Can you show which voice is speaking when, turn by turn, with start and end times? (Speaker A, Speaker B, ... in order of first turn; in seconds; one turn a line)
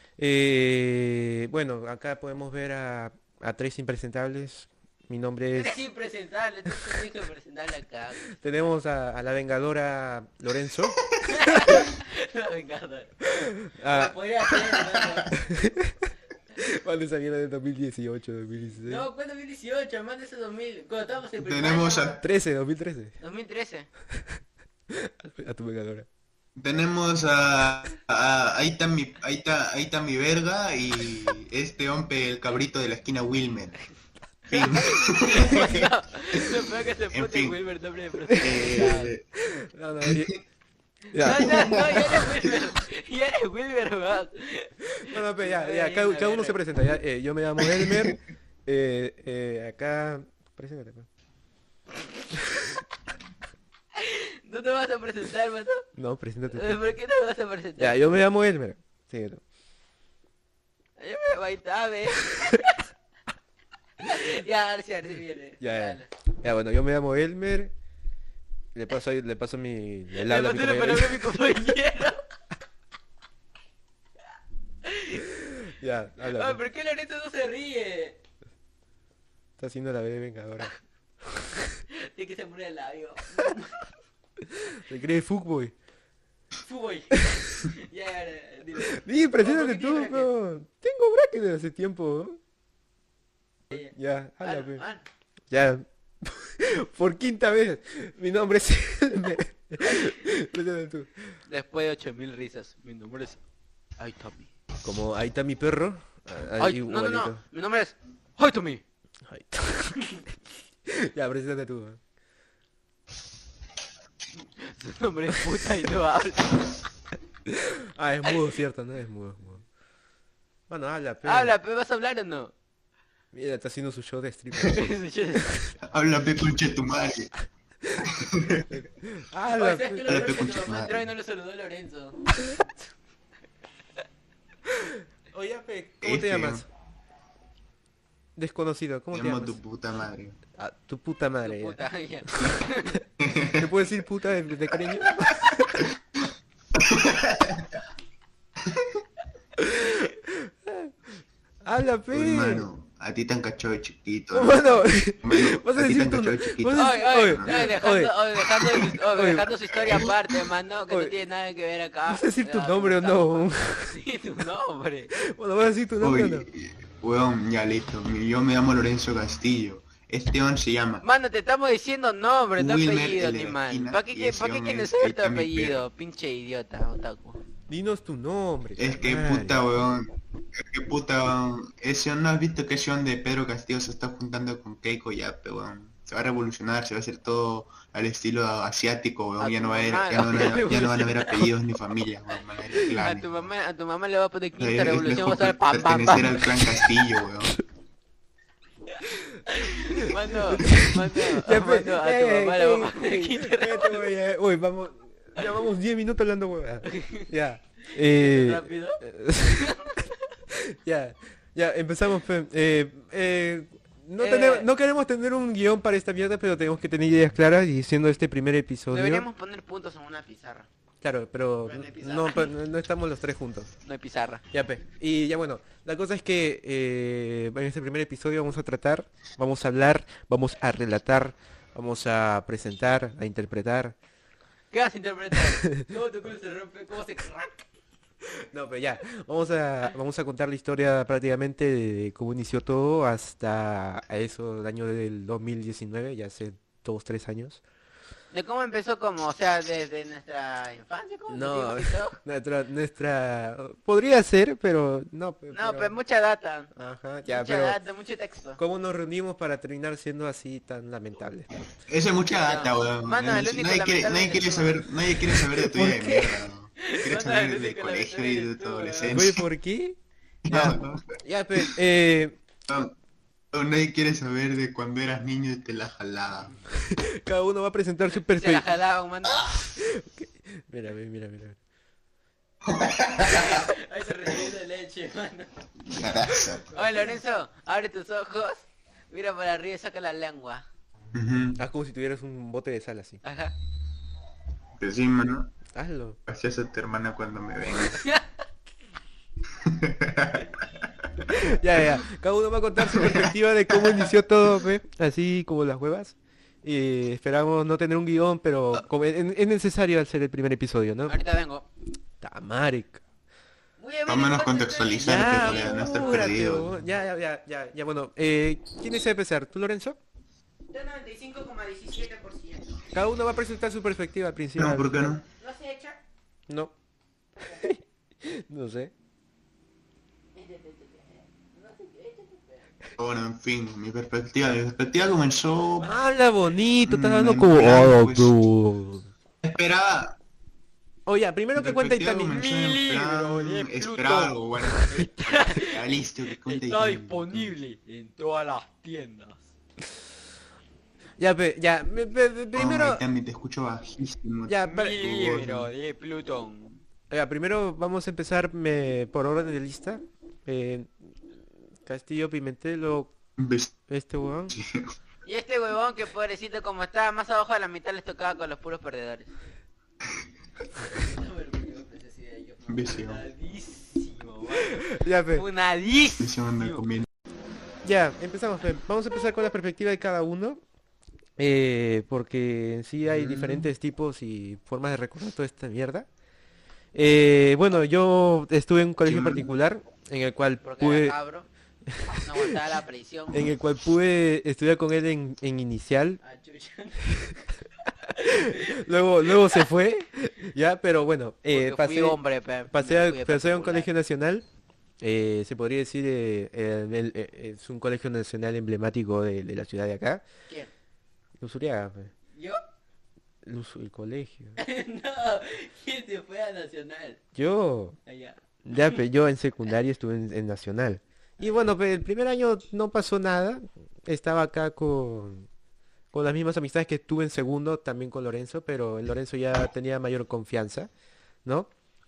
Speaker A: 0.2-5.8
Speaker B: 5.5-8.3
Speaker A: 6.7-7.0
Speaker A: 8.3-11.9
Speaker B: 11.2-13.1
Speaker A: 13.2-14.2
Speaker B: 13.9-15.4
Speaker C: 14.6-15.2
Speaker A: 15.3-19.1
Speaker B: 18.8-22.2
Speaker C: 21.4-22.2
Speaker A: 22.2-23.1
Speaker B: 23.2-23.9
Speaker A: 24.9-26.1
Speaker C: 26.6-33.8
Speaker C: 34.5-37.6
Speaker B: 34.5-39.1
Speaker A: 34.8-35.8
Speaker A: 38.3-40.4
Speaker C: 38.3-39.2
Speaker C: 40.0-40.3
Speaker A: 41.1-42.5
Speaker B: 41.1-46.6
Speaker C: 41.3-42.5
Speaker A: 44.8-51.1
Speaker C: 47.6-48.1
Speaker A: 52.4-52.7
Speaker B: 54.0-55.9
Speaker A: 56.0-56.9
Speaker B: 56.5-58.0
Speaker A: 57.8-59.4
Speaker B: 61.0-62.8
Speaker B: 64.0-66.1
Speaker A: 65.6-67.7
Speaker A: 68.7-71.7
Speaker B: 70.1-72.2
Speaker B: 74.8-75.2
Speaker A: 75.2-76.6
Speaker B: 76.2-78.2
Speaker A: 79.6-81.8
Speaker B: 81.9-83.9
Speaker A: 84.4-85.7
Speaker B: 86.6-90.3
Speaker A: 87.1-87.7
Speaker A: 88.9-92.4
Speaker A: 93.7-94.8
Speaker B: 94.4-95.0
Speaker A: 95.5-101.4
Speaker B: 99.8-100.3
Speaker B: 101.5-103.4
Speaker B: 104.0-104.5
Speaker A: 104.8-107.4
Speaker B: 106.6-108.8
Speaker A: 109.3-110.1
Speaker A: 110.8-112.0
Speaker B: 114.6-116.8
Speaker A: 117.5-119.7
Speaker A: 120.7-121.5
Speaker B: 121.2-122.5
Speaker A: 123.3-124.9
Speaker B: 124.6-125.7
Speaker C: 125.8-127.3
Speaker A: 127.8-130.3
Speaker C: 128.1-128.7
Speaker B: 129.5-132.2
Speaker C: 130.1-131.1
Speaker A: 134.7-136.7
Speaker C: 136.0-136.6
Speaker A: 138.4-139.6
Speaker C: 139.1-140.4
Speaker A: 140.6-141.8
Speaker B: 141.4-143.0
Speaker A: 142.3-142.7
Speaker C: 143.2-143.7
Speaker A: 143.5-145.9
Speaker C: 146.7-147.8
Speaker C: 148.6-149.0
Speaker A: 149.6-150.9
Speaker A: 151.6-152.7
Speaker C: 152.1-157.6
Speaker A: 154.3-160.1
Speaker B: 156.8-165.1
Speaker A: 162.1-163.9
Speaker A: 165.1-166.5
Speaker C: 166.0-171.0
Speaker B: 171.0-177.4
Speaker C: 172.6-175.8
Speaker A: 177.7-179.7
Speaker C: 178.8-193.5
Speaker B: 189.4-191.4
Speaker B: 192.8-196.7
Speaker C: 194.5-197.5
Speaker A: 199.0-209.8
Speaker B: 199.5-204.0
Speaker B: 206.9-207.3
Speaker B: 207.8-210.2
Speaker A: 210.5-219.2
Speaker B: 214.2-214.7
Speaker B: 218.9-220.7
Speaker A: 221.0-223.7
Speaker B: 221.6-222.5
Speaker B: 223.8-224.4
Speaker A: 224.5-233.9
Speaker B: 234.7-237.6
Speaker A: 238.3-247.6
Speaker B: 248.3-252.1
Speaker A: 251.3-255.9
Speaker B: 255.5-256.7
Speaker A: 256.7-257.8
Speaker B: 257.2-258.6
Speaker A: 258.6-261.5
Speaker C: 261.9-269.4
Speaker B: 262.3-264.8
Speaker A: 265.6-266.3
Speaker B: 266.8-269.2
Speaker A: 269.1-270.0
Speaker C: 270.4-271.7
Speaker A: 270.5-272.4
Speaker C: 272.7-272.9
Speaker C: 273.5-276.5
Speaker A: 276.7-278.6
Speaker B: 278.1-279.6
Speaker A: 279.5-281.6
Speaker C: 282.6-283.7
Speaker B: 283.2-285.5
Speaker C: 285.8-286.7
Speaker B: 286.7-290.6
Speaker C: 291.1-291.6
Speaker A: 291.6-293.2
Speaker B: 293.2-293.5
Speaker C: 294.8-295.5
Speaker A: 295.7-296.2
Speaker C: 296.3-298.0
Speaker B: 297.9-298.2
Speaker C: 299.6-301.4
Speaker A: 301.3-311.2
Speaker C: 302.9-304.0
Speaker B: 311.1-311.6
Speaker A: 312.2-313.0
Speaker B: 313.8-316.3
Speaker C: 314.1-316.8
Speaker A: 315.0-320.0
Speaker B: 320.7-322.8
Speaker A: 322.9-325.1
Speaker C: 324.6-325.2
Speaker B: 325.4-326.0
Speaker A: 326.5-326.7
Speaker A: 327.4-328.9
Speaker B: 330.3-332.7
Speaker C: 333.0-335.9
Speaker A: 335.8-339.1
Speaker C: 336.8-338.3
Speaker C: 339.4-340.2
Speaker A: 341.1-342.4
Speaker C: 341.6-347.5
Speaker B: 342.3-344.4
Speaker A: 344.6-345.0
Speaker B: 344.9-349.4
Speaker A: 351.2-353.0
Speaker C: 352.5-355.7
Speaker A: 354.5-355.0
Speaker B: 354.6-356.8
Speaker A: 357.1-363.1
Speaker C: 363.4-363.7
Speaker A: 363.9-364.6
Speaker C: 364.5-364.9
Speaker B: 365.2-369.3
Speaker B: 371.0-376.8
Speaker C: 372.7-373.2
Speaker A: 374.7-375.4
Speaker C: 376.2-377.1
Speaker A: 377.8-380.6
Speaker A: 381.4-386.1
Speaker C: 383.1-383.7
Speaker A: 386.9-391.2
Speaker C: 389.1-389.4
Speaker B: 390.6-391.5
Speaker A: 391.9-392.6
Speaker B: 392.2-393.5
Speaker A: 393.3-396.2
Speaker B: 396.2-397.4
Speaker B: 398.1-398.8
Speaker A: 398.1-402.2
Speaker B: 401.5-403.9
Speaker A: 402.7-404.4
Speaker A: 405.0-410.2
Speaker A: 411.4-412.1
Speaker A: 413.4-414.6
Speaker B: 414.6-417.2
Speaker A: 417.3-418.0
Speaker B: 418.1-419.0
Speaker A: 418.6-425.5
Speaker A: 426.1-430.9
Speaker A: 431.4-431.7